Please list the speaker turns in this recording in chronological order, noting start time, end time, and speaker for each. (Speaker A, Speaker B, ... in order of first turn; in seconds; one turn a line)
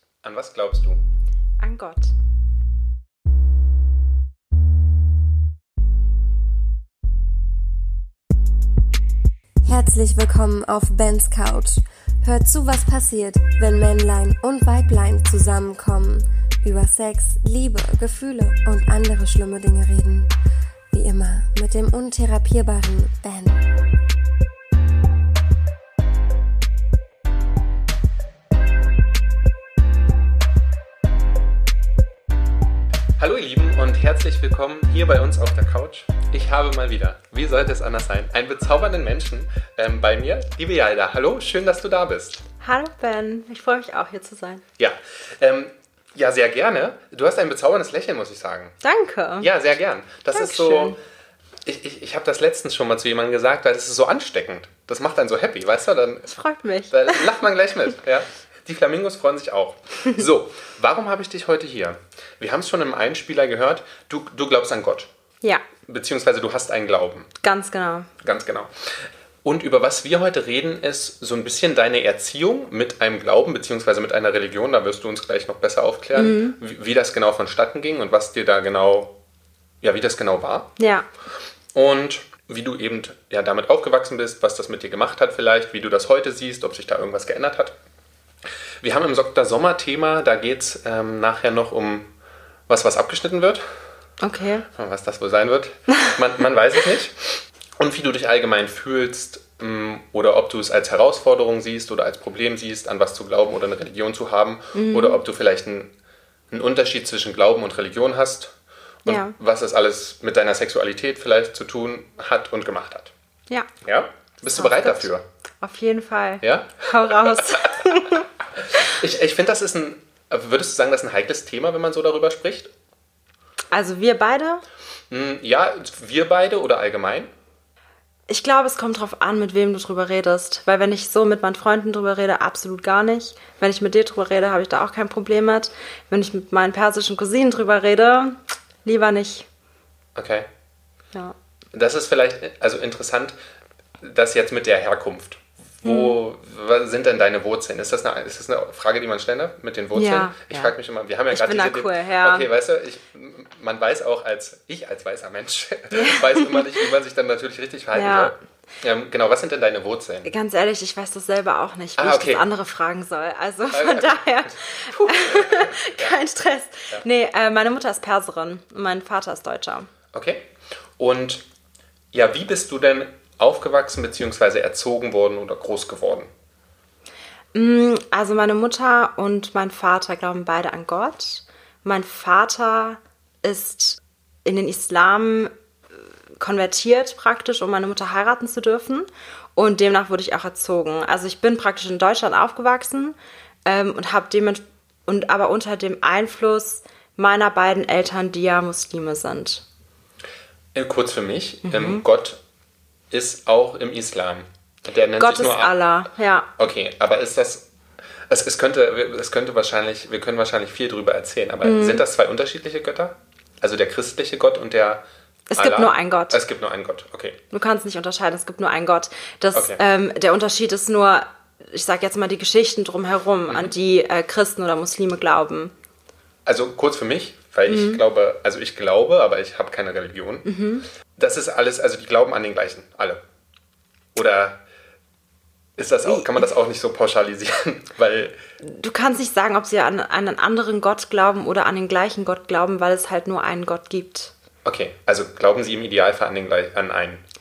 Speaker A: 0.2-1.0
Speaker B: 1.6-2.1
Speaker C: 9.6-20.3
Speaker C: 20.9-23.7
Speaker A: 33.2-42.4
Speaker B: 42.6-44.6
Speaker A: 44.8-48.8
Speaker B: 48.8-49.5
Speaker A: 49.4-51.0
Speaker B: 50.3-51.0
Speaker A: 51.7-56.3
Speaker B: 56.3-57.3
Speaker A: 56.9-65.1
Speaker A: 65.9-67.3
Speaker B: 67.4-68.1
Speaker A: 68.2-79.2
Speaker B: 76.2-76.6
Speaker A: 79.8-80.7
Speaker B: 80.8-81.1
Speaker A: 81.8-87.8
Speaker A: 88.8-92.1
Speaker A: 92.7-93.7
Speaker B: 94.2-94.7
Speaker A: 94.7-105.9
Speaker B: 104.8-105.2
Speaker A: 106.5-108.5
Speaker A: 109.0-113.1
Speaker B: 109.1-109.3
Speaker A: 113.8-115.2
Speaker B: 114.6-115.1
Speaker B: 115.6-118.2
Speaker A: 116.4-117.8
Speaker A: 118.6-122.7
Speaker B: 123.7-124.6
Speaker A: 125.1-127.3
Speaker B: 128.3-139.5
Speaker A: 140.2-140.5
Speaker A: 141.7-143.4
Speaker A: 144.0-160.3
Speaker B: 145.8-146.2
Speaker B: 149.9-150.7
Speaker B: 151.3-152.5
Speaker B: 155.9-156.7
Speaker B: 157.9-158.3
Speaker B: 160.2-169.9
Speaker A: 162.0-162.4
Speaker A: 163.7-166.2
Speaker A: 170.1-171.4
Speaker A: 172.1-176.3
Speaker B: 177.5-185.5
Speaker B: 186.4-199.6
Speaker A: 200.8-202.4
Speaker B: 201.7-202.0
Speaker A: 203.1-205.7
Speaker B: 205.2-206.5
Speaker A: 206.6-207.7
Speaker A: 208.3-215.0
Speaker B: 211.6-212.0
Speaker B: 215.5-216.4
Speaker A: 215.6-217.4
Speaker B: 217.5-225.7
Speaker A: 219.6-219.8
Speaker A: 226.5-230.5
Speaker B: 227.7-228.0
Speaker B: 230.5-230.9
Speaker A: 231.2-233.2
Speaker A: 234.2-234.6
Speaker A: 235.8-238.4
Speaker B: 236.1-236.5
Speaker B: 238.6-244.3
Speaker A: 244.7-247.2